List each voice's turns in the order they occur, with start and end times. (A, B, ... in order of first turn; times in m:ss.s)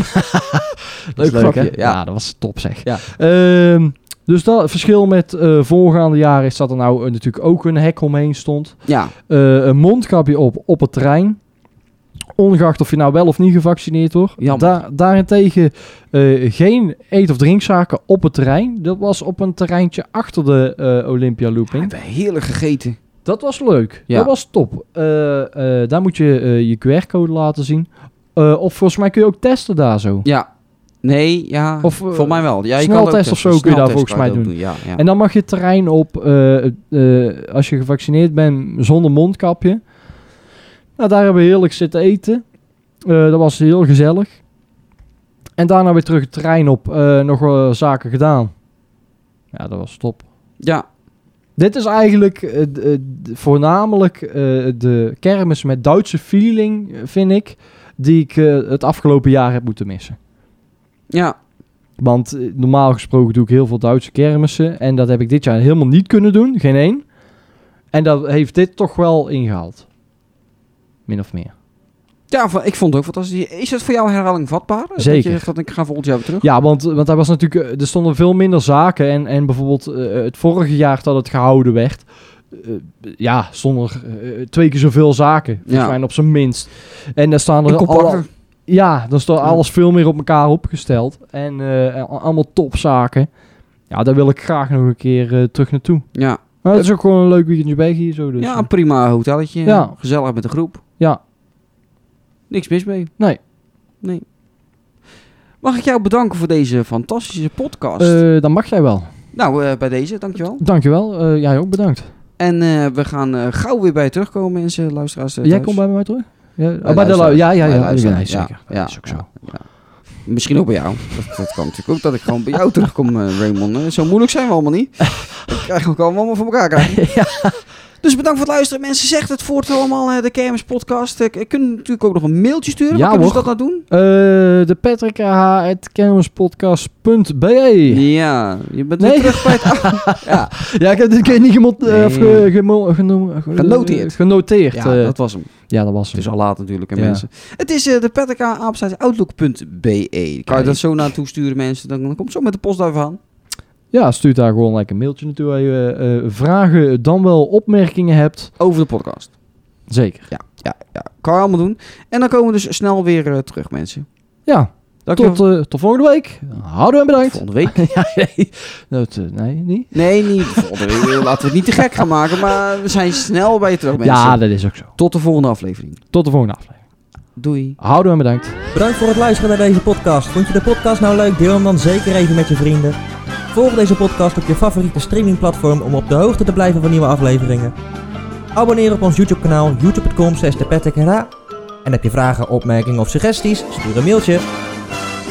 0:00.2-0:11.4 A
0:01.2-0:02.0 B
0:08.9-0:09.1 B
0:12.4-0:21.9 A
0:14.4-0:14.7 B
0:21.7-0:23.0 B
0:23.2-0:30.3 A
0:31.0-0:35.0 B
0:31.8-0:39.8 A
0:41.0-0:42.4 A
0:43.0-0:44.4 A
0:45.6-0:48.5 A
0:49.5-0:50.3 A
0:51.6-1:00.2 A
1:01.1-1:01.4 B
1:02.0-1:07.1 A
1:07.9-1:09.9 A
1:11.1-1:11.5 A
1:12.3-1:16.5 B
1:15.0-1:15.5 A
1:16.4-1:33.3 A
1:25.7-1:26.0 B
1:27.7-1:28.3 B
1:33.9-1:36.1 A
1:36.1-1:36.9 B
1:36.6-1:38.7 A
1:38.4-1:40.8 B
1:39.6-1:39.9 A
1:42.5-1:43.1 B
1:45.6-1:48.2 B
1:48.0-1:49.1 A
1:49.3-1:50.6 B
1:50.6-1:52.1 A
1:52.4-1:55.8 B
1:55.4-1:59.3 A
1:56.8-1:59.6 B
2:00.2-2:07.1 B
2:06.8-2:07.6 A
2:08.0-2:13.8 B
2:12.9-2:18.1 A
2:17.9-2:20.7 B
2:19.0-2:26.3 A
2:21.9-2:22.5 B
2:23.6-2:24.2 B
2:24.7-2:33.2 B
2:27.0-2:27.2 A
2:30.5-2:30.8 A
2:33.9-2:38.5 A
2:38.6-2:39.3 B
2:39.9-2:40.3 A
2:40.3-2:44.1 B
2:44.5-2:51.2 A
2:45.1-2:45.4 B
2:47.2-2:47.8 B
2:49.9-2:54.4 B
2:54.0-2:54.9 A
2:55.0-2:56.0 B
2:56.1-2:56.8 A
2:57.4-2:57.8 B
2:57.8-2:58.6 A
2:58.7-3:03.0 C
3:03.5-3:07.7 C
3:08.5-3:11.3 C
3:11.8-3:14.4 C